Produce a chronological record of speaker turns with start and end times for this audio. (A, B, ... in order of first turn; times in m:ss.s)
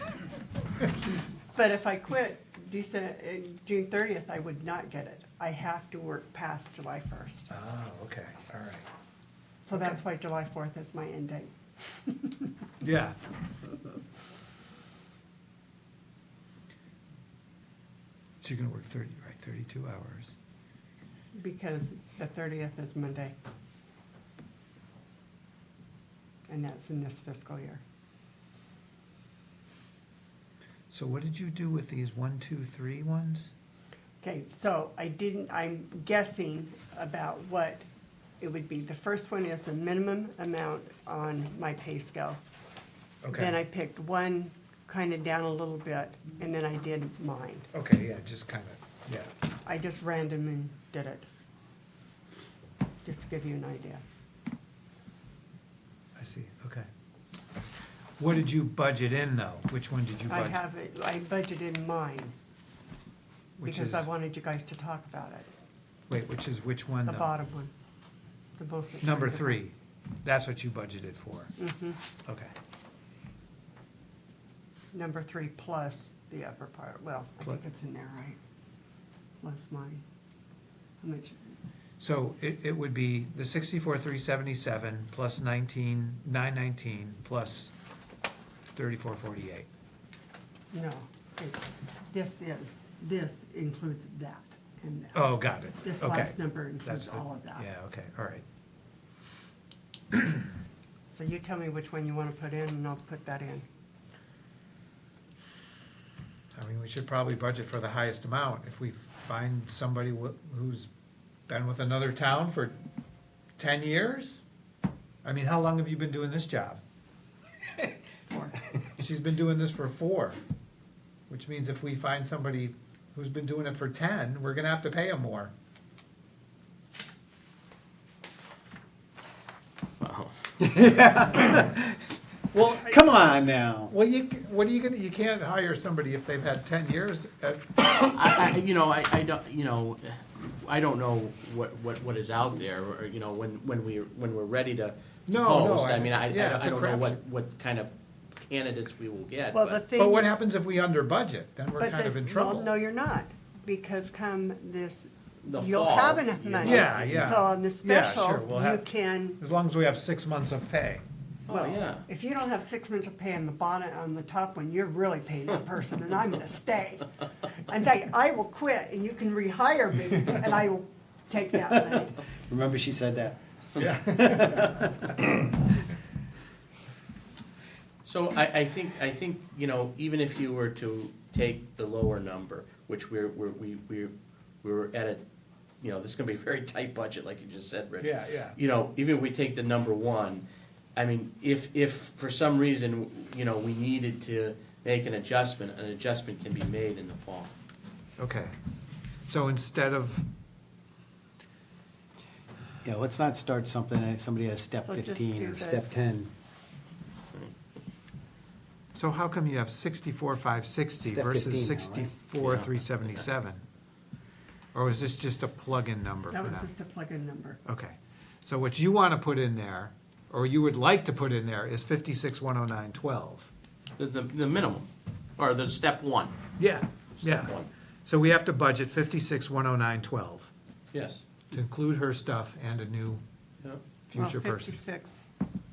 0:01.5-0:07.5 A
0:07.5-0:08.8 B
0:09.7-0:12.5 A
0:09.7-0:10.0 B
0:12.8-0:13.2 B
0:18.4-0:20.3 B
0:21.4-0:23.4 A
0:26.5-0:27.8 A
0:30.9-0:33.5 B
0:34.2-0:37.8 A
0:38.4-0:42.4 A
0:43.2-0:43.6 B
0:43.3-0:47.7 A
0:47.7-0:49.3 B
0:49.6-0:51.3 A
0:53.0-0:54.0 A
0:56.2-0:56.8 B
0:58.2-1:00.6 B
1:00.3-1:02.3 A
1:03.6-1:04.1 B
1:03.6-1:05.5 A
1:06.1-1:07.3 B
1:07.0-1:07.7 A
1:08.6-1:09.6 A
1:09.0-1:11.5 B
1:11.6-1:12.0 A
1:12.2-1:12.5 B
1:14.9-1:18.4 A
1:19.4-1:20.0 A
1:21.0-1:21.4 A
1:22.0-1:27.7 B
1:28.7-1:29.7 B
1:30.7-1:37.6 A
1:35.1-1:38.4 B
1:40.1-1:40.5 B
1:41.1-1:43.6 A
1:46.6-1:50.9 B
1:51.5-1:52.8 B
1:53.6-1:54.4 B
1:55.2-1:56.8 B
1:59.0-2:00.4 B
2:01.3-2:05.5 B
2:10.0-2:10.6 C
2:10.6-2:12.0 D
2:12.5-2:13.2 B
2:12.8-2:13.9 D
2:13.9-2:17.7 B
2:18.0-2:29.8 C
2:25.3-2:27.2 B
2:29.5-2:30.3 A
2:29.9-2:32.7 B
2:31.8-2:39.4 A
2:35.4-2:37.4 C
2:36.6-2:38.8 B
2:39.4-2:41.0 B
2:41.5-2:42.0 C
2:41.5-2:52.2 A
2:51.7-2:51.9 D
2:52.5-2:55.4 D
2:53.8-2:54.9 B
2:58.0-3:05.2 C
3:05.8-3:17.5 C
3:08.0-3:08.6 B
3:18.2-3:18.5 B
3:19.3-3:20.3 B
3:22.8-3:26.3 D
3:24.8-3:25.8 A
3:28.9-3:33.6 B
3:31.0-3:32.6 D
3:32.4-3:33.3 C
3:34.7-3:36.7 B
3:36.3-3:37.6 A
3:37.6-3:43.5 B
3:44.0-3:44.9 C
3:45.4-3:46.3 C
3:46.6-3:50.5 B
3:47.2-3:47.7 C
3:50.9-3:51.2 C
3:51.5-3:53.2 B
3:54.1-3:54.8 B
3:54.2-3:55.2 A